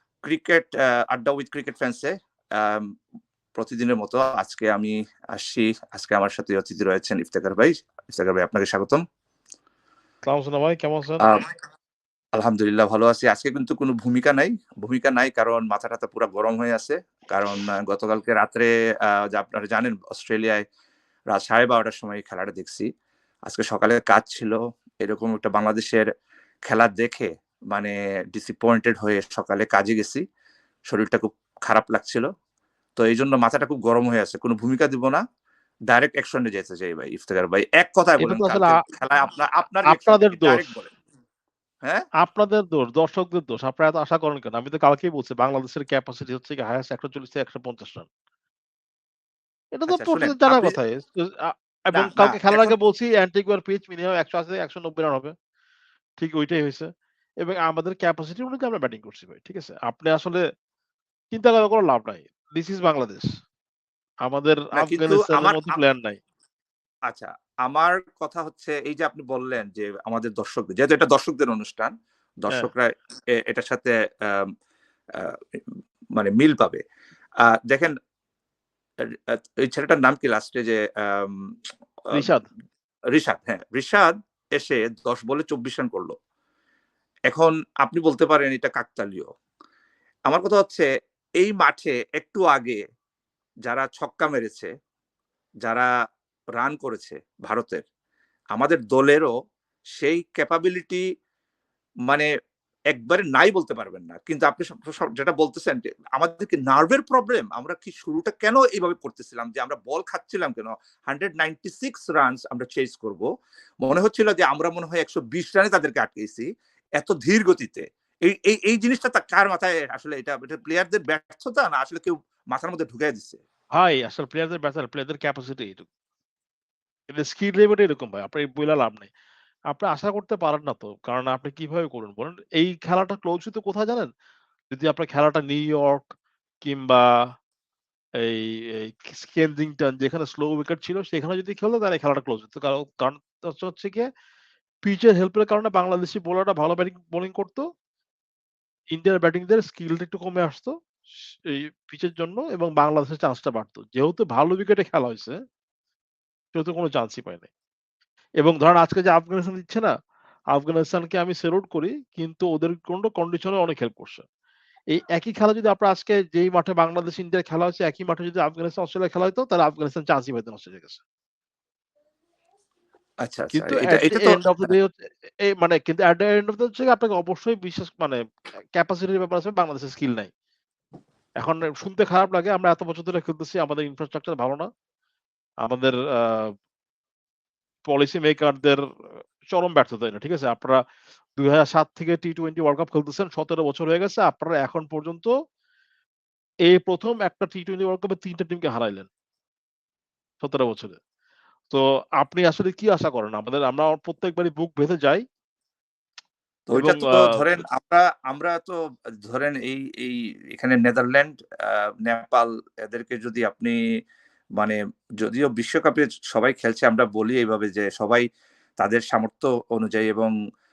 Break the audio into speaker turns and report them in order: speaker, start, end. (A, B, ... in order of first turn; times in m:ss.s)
0:00.3-0:02.9 A
0:03.6-0:09.0 A
0:10.3-0:11.4 B
0:11.2-0:11.5 A
0:12.4-0:20.6 A
0:21.3-0:22.9 A
0:23.5-0:26.1 A
0:26.7-0:30.2 A
0:30.9-0:32.3 A
0:33.0-0:35.2 A
0:35.9-0:40.9 A
0:38.2-0:38.8 B
0:39.9-0:40.7 B
0:42.2-0:48.1 B
0:49.8-0:55.3 B
0:49.9-0:50.8 A
0:51.9-0:52.8 A
0:56.2-0:56.9 B
0:57.4-1:00.4 B
1:01.3-1:03.3 B
1:04.3-1:06.2 B
1:04.8-1:05.8 A
1:07.1-1:11.9 A
1:12.4-1:14.5 A
1:16.2-1:16.8 A
1:17.6-1:17.9 A
1:19.6-1:21.4 A
1:22.1-1:22.5 B
1:23.1-1:26.2 A
1:27.3-1:29.3 A
1:30.3-1:30.9 A
1:31.4-1:32.8 A
1:33.7-1:34.7 A
1:36.6-1:37.8 A
1:38.5-1:39.3 A
1:40.0-1:41.0 A
1:42.9-1:53.3 A
1:53.8-1:56.5 A
1:57.0-2:03.4 A
2:03.8-2:05.9 B
2:07.1-2:09.1 B
2:09.7-2:14.1 B
2:14.7-2:16.1 B
2:16.6-2:17.0 B
2:18.2-2:24.1 B
2:24.8-2:27.7 B
2:28.9-2:30.8 B
2:31.3-2:35.4 B
2:36.5-2:37.5 B
2:38.4-2:39.9 B
2:40.5-2:44.2 B
2:45.0-2:51.0 B
2:53.2-2:54.7 A
2:53.5-2:58.2 B
2:58.8-3:00.3 B
3:01.4-3:04.7 B
3:05.6-3:06.5 B
3:07.9-3:10.8 B
3:11.4-3:15.3 B
3:16.7-3:19.1 B
3:20.4-3:21.0 B
3:21.7-3:25.2 B
3:26.7-3:33.8 A
3:26.7-3:27.6 B
3:34.6-3:38.2 A
3:38.8-3:40.3 A